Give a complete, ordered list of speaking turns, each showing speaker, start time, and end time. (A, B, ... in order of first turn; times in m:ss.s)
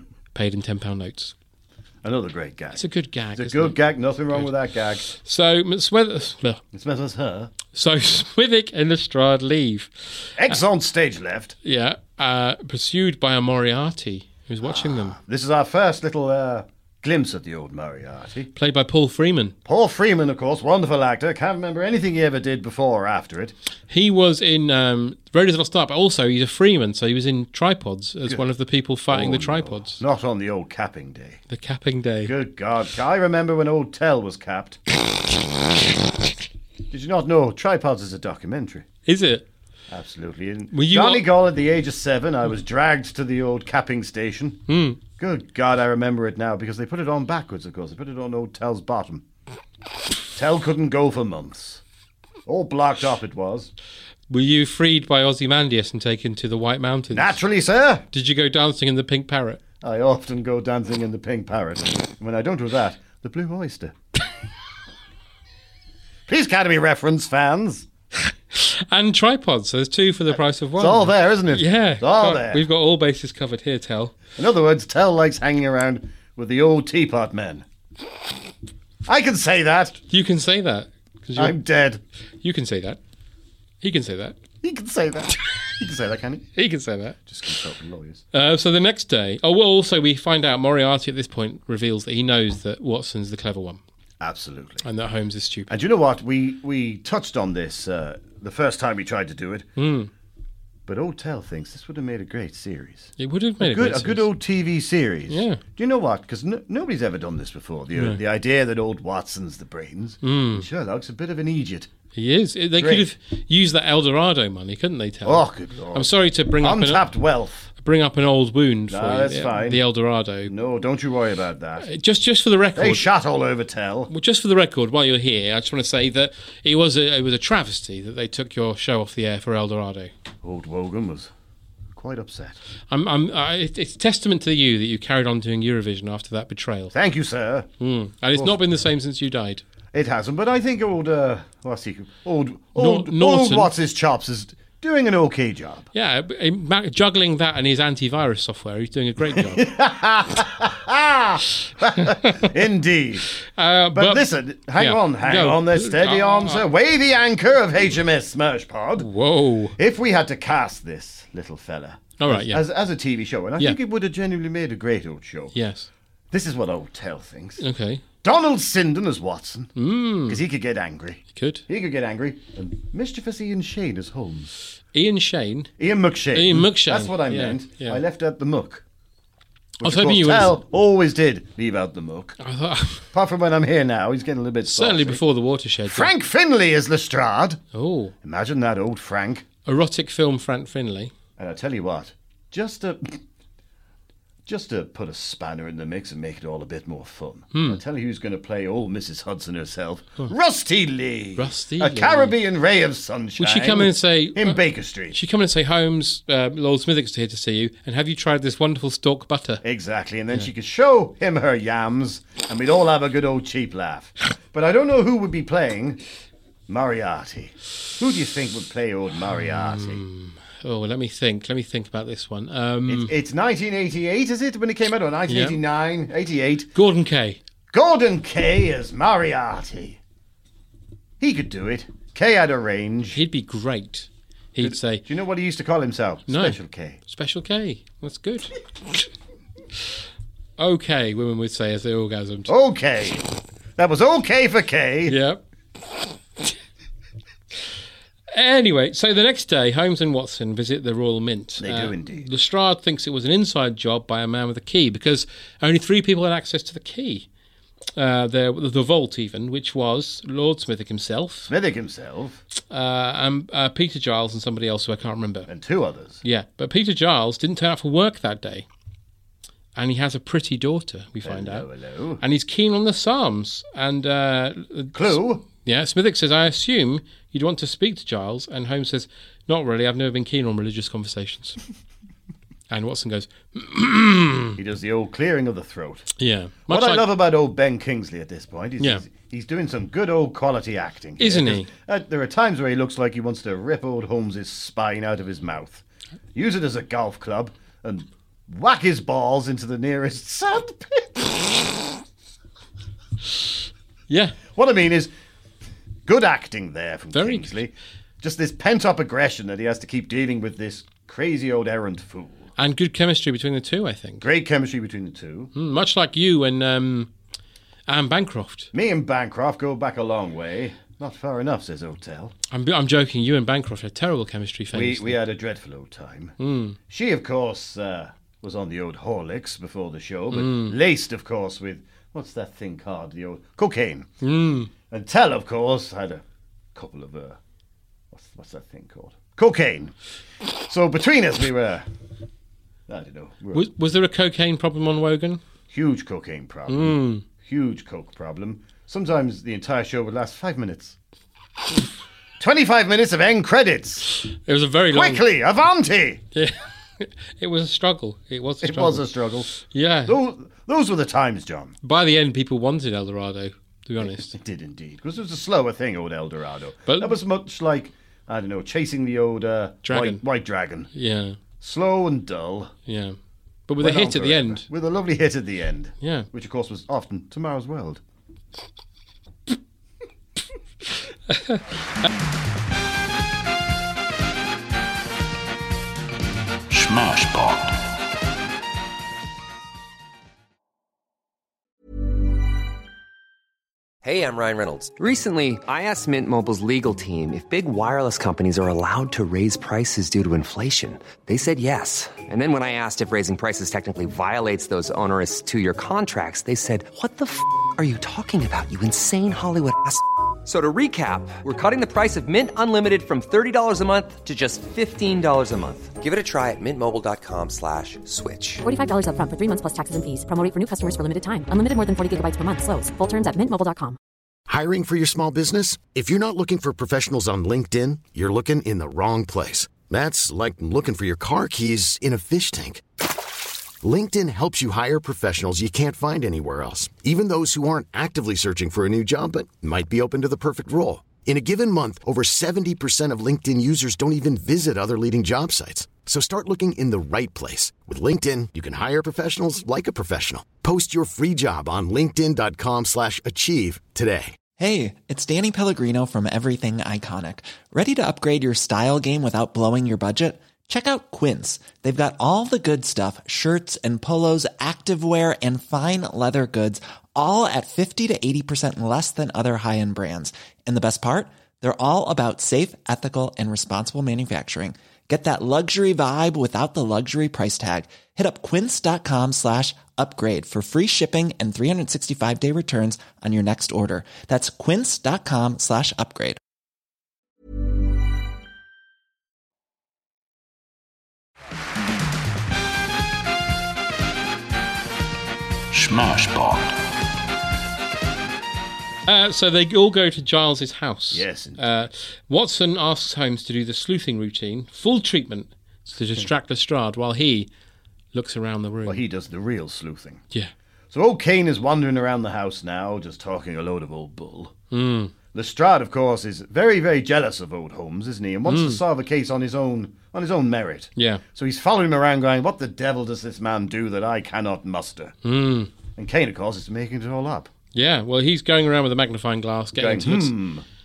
0:00.3-0:01.3 A
0:02.0-0:02.8 B
0:02.7-0:03.8 A
0:03.4-0:05.0 B
0:05.0-0:06.6 A
0:06.7-0:07.5 B
0:07.7-0:10.6 A
0:10.4-0:11.5 B
0:11.6-0:15.2 A
0:14.6-0:18.5 B
0:18.5-0:19.6 A
0:19.6-0:23.5 B
0:23.9-0:30.0 A
0:29.1-0:31.4 B
0:31.5-0:32.3 A
0:32.2-0:34.8 B
0:36.9-0:38.8 B
0:39.0-0:39.4 A
0:39.9-0:44.6 B
0:40.7-0:41.3 A
0:44.7-0:45.0 A
0:45.2-0:49.2 B
0:50.3-0:51.8 B
0:52.4-0:53.7 B
0:54.3-0:57.4 A
0:57.1-0:58.0 B
0:58.1-0:59.6 A
0:59.8-1:03.9 B
1:06.3-1:07.8 B
1:08.5-1:14.2 A
1:10.8-1:12.6 B
1:14.4-1:17.6 B
1:19.0-1:20.0 B
1:20.1-1:21.6 A
1:21.4-1:22.0 B
1:22.4-1:23.0 A
1:23.8-1:24.4 A
1:24.6-1:26.5 B
1:26.6-1:27.2 A
1:27.3-1:28.2 B
1:28.3-1:33.8 A
1:34.2-1:34.8 B
1:34.8-1:35.7 A
1:35.7-1:39.7 B
1:39.8-1:40.1 A
1:40.9-1:51.9 B
1:43.2-1:44.3 A
1:45.3-1:45.6 A
1:47.9-1:48.2 A
1:50.2-1:50.6 A
1:52.1-1:57.0 A
1:52.8-1:53.1 B
1:55.2-1:57.7 B
1:57.8-2:00.5 A
1:58.9-1:59.8 B
2:00.5-2:01.9 B
2:01.8-2:03.0 A
2:02.8-2:04.1 B
2:04.1-2:10.1 A
2:10.4-2:11.3 B
2:11.9-2:12.6 B
2:12.9-2:16.9 A
2:16.9-2:17.7 B
2:17.8-2:19.6 A
2:19.9-2:25.9 B
2:22.8-2:23.7 A
2:25.9-2:29.6 A
2:29.4-2:33.3 B
2:33.4-2:36.6 A
2:33.9-2:39.1 B
2:39.0-2:39.8 A
2:39.8-2:45.5 B
2:42.2-2:42.6 A
2:45.5-2:45.9 A
2:46.3-2:47.6 B
2:47.6-2:48.0 A
2:48.2-2:49.7 B
2:49.8-2:50.4 A
2:50.3-2:54.5 B
2:51.3-2:51.6 A
2:54.9-2:55.7 A
2:55.8-2:58.8 B
2:56.3-2:58.0 A
2:59.8-3:02.4 B
2:59.8-3:00.6 A
3:02.4-3:03.1 A
3:03.1-3:05.2 B
3:04.7-3:06.1 A
3:05.8-3:07.6 B
3:07.7-3:08.1 A
3:08.2-3:09.4 B
3:09.6-3:11.1 A
3:11.4-3:13.2 B
3:14.4-3:25.2 B
3:17.5-3:17.8 A
3:21.4-3:22.3 A
3:23.4-3:29.6 A
3:29.6-3:36.0 B
3:36.7-3:40.0 B
3:39.4-3:43.1 A
3:42.9-3:46.7 B
3:45.3-3:45.6 A
3:46.7-3:47.4 A
3:47.7-3:50.0 B
3:51.2-3:53.2 B
3:53.1-3:55.0 A
3:54.6-3:57.0 B
3:56.3-3:58.5 A
4:00.6-4:02.5 A
4:02.5-4:03.2 B
4:03.8-4:05.2 B
4:05.1-4:05.4 A
4:08.3-4:17.2 A
4:11.6-4:12.3 B
4:18.0-4:21.5 A
4:21.5-4:22.4 B
4:22.7-4:25.5 A
4:25.5-4:26.2 B
4:26.2-4:28.6 A
4:29.7-4:31.7 A
4:31.2-4:32.2 B
4:32.2-4:41.6 A
4:34.9-4:35.4 B
4:42.7-4:44.6 A
4:44.6-4:46.1 B
4:46.2-4:47.0 A
4:46.7-5:01.6 B
4:51.2-4:51.7 A
5:04.1-5:04.4 A
5:04.5-5:05.1 B
5:06.0-5:12.5 B
5:07.1-5:07.5 A
5:12.6-5:14.2 A
5:14.2-5:15.5 B
5:15.5-5:17.1 A
5:17.9-5:18.7 A
5:18.7-5:22.3 B
5:22.5-5:25.2 A
5:24.7-5:26.3 B
5:26.4-5:26.8 A
5:26.9-5:34.1 B
5:30.3-5:30.8 A
5:34.2-5:34.7 A
5:34.9-5:36.2 B
5:36.7-5:37.4 B
5:38.1-5:39.9 B
5:40.6-5:41.8 B
5:42.9-5:43.6 B
5:43.5-5:45.4 A
5:45.7-5:51.0 B
5:46.7-5:47.2 A
5:52.4-5:54.1 B
5:54.3-5:55.2 A
5:54.9-5:56.2 B
5:56.3-6:00.2 A
5:58.6-5:59.5 B
6:00.0-6:01.7 B
6:01.8-6:04.3 A
6:04.0-6:10.9 B
6:06.9-6:07.1 A
6:09.8-6:10.2 A
6:10.9-6:11.4 A
6:11.6-6:12.7 B
6:12.8-6:13.2 A
6:13.7-6:14.6 A
6:13.8-6:18.0 B
6:16.0-6:16.3 A
6:21.3-6:21.6 A
6:26.7-6:27.8 C
6:34.0-6:58.6 D
6:58.6-7:04.0 E
7:04.5-7:12.8 F
7:13.8-7:34.4 F
7:34.6-8:06.4 G
8:15.7-8:16.8 C
8:19.0-8:27.5 A
8:21.1-8:21.6 B
8:28.1-8:29.0 A
8:28.8-8:30.2 B
8:30.9-8:34.5 B
8:34.7-8:35.1 A
8:35.3-8:45.2 B
8:38.5-8:38.8 A
8:41.0-8:41.2 A
8:45.2-8:45.7 A
8:46.0-8:47.5 B
8:47.7-8:50.3 A
8:49.8-8:50.6 B